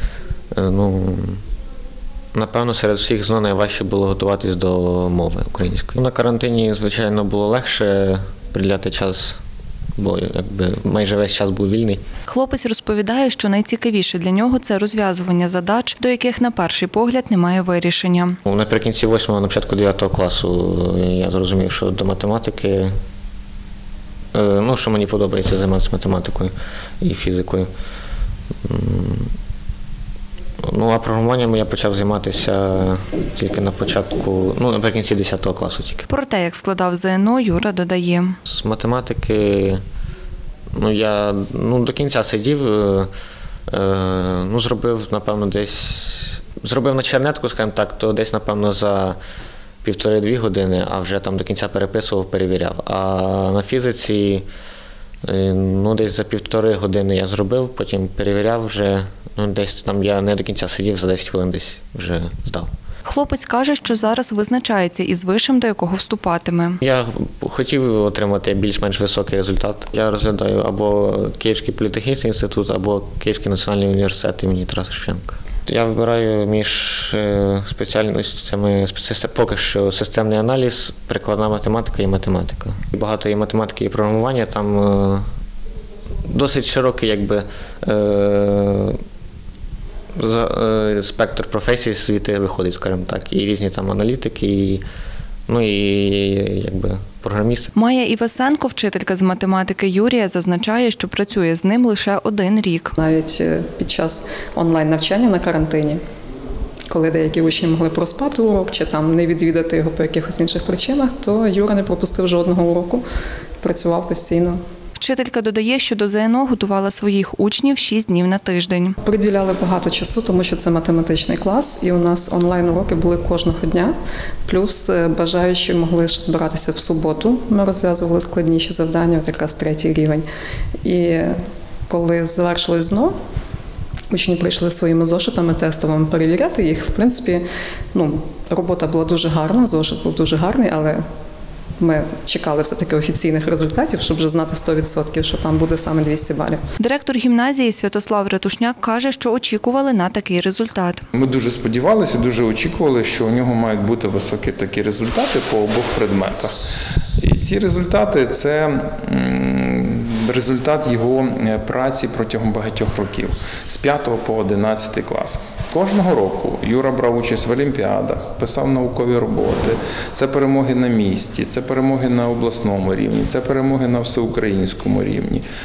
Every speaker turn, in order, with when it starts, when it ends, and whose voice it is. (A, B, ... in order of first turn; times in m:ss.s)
0:00.5-0:01.4 A
0:02.3-0:09.4 A
0:10.0-0:12.0 A
0:12.3-0:18.4 B
0:18.4-0:22.9 A
0:24.3-0:27.7 A
0:28.6-0:29.3 A
0:30.6-0:36.0 A
0:36.1-0:38.4 B
0:38.4-0:39.8 A
0:40.7-0:43.1 A
0:43.7-0:49.2 A
0:49.8-0:54.4 A
0:55.2-1:02.7 A
1:03.0-1:06.8 B
1:06.8-1:25.2 A
1:26.2-1:29.0 A
1:30.1-1:34.8 A
1:35.5-1:37.7 A
1:37.7-1:42.9 B
1:43.0-1:46.0 C
1:46.9-1:53.0 C
1:53.6-1:54.6 C
1:55.0-1:59.0 B
1:59.0-2:03.9 C
2:04.5-2:10.2 C
2:10.8-2:11.3 C
2:11.9-2:13.1 C
2:14.1-2:21.0 C
2:21.8-2:26.6 C
2:26.8-2:31.0 B
2:31.1-2:36.6 D
2:37.2-2:55.4 D